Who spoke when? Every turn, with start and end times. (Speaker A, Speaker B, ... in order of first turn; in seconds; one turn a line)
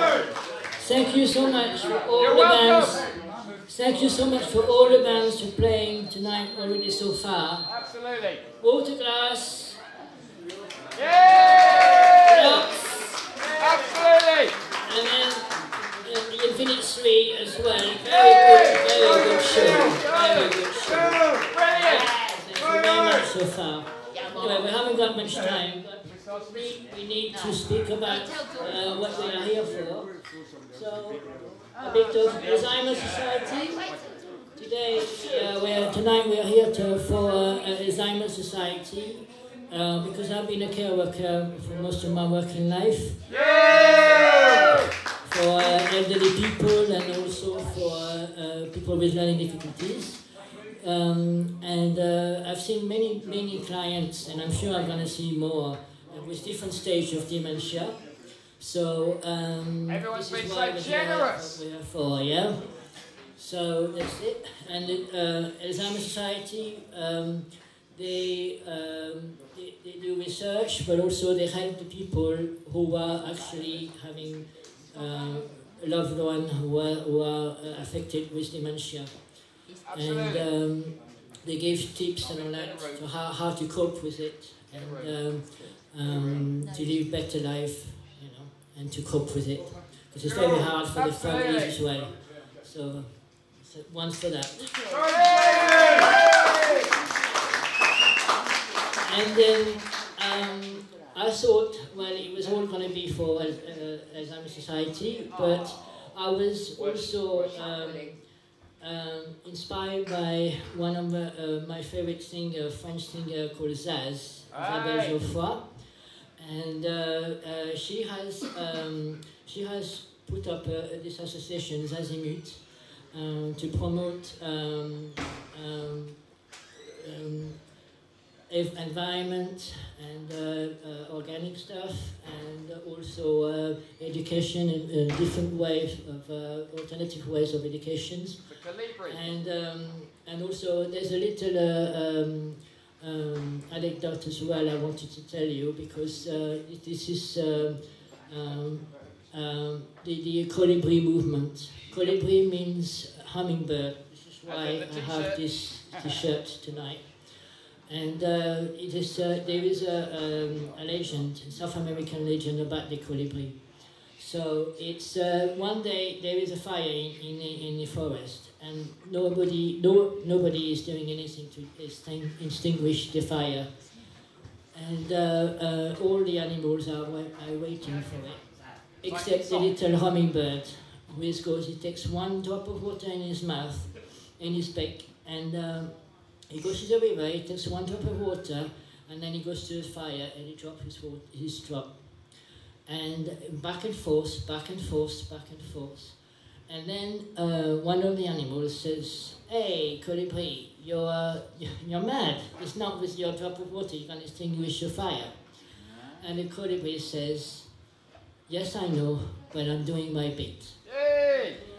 Speaker A: 0.8-3.0
Speaker A: 3.7-7.7
Speaker B: 7.8-8.4
Speaker A: 8.6-9.8
Speaker B: 11.0-12.3
Speaker A: 12.2-13.2
Speaker B: 13.6-14.5
Speaker A: 14.8-15.5
Speaker A: 16.0-30.1
Speaker A: 30.6-31.2
Speaker A: 31.8-33.9
Speaker A: 34.5-43.2
Speaker B: 43.4-44.4
Speaker A: 45.2-50.2
Speaker A: 50.8-58.0
Speaker A: 58.6-62.6
Speaker A: 63.4-79.3
Speaker A: 79.9-94.7
Speaker B: 95.0-95.8
Speaker A: 99.0-108.2
Speaker A: 108.8-115.7
Speaker A: 116.4-126.2
Speaker A: 126.8-127.6
Speaker A: 128.5-138.4
Speaker A: 139.0-163.6
Speaker A: 164.2-173.7
Speaker A: 174.7-178.4
Speaker A: 179.0-186.0
Speaker A: 186.5-191.9
Speaker A: 192.8-205.3
Speaker A: 206.1-207.7
Speaker A: 208.5-210.8
Speaker B: 211.1-211.5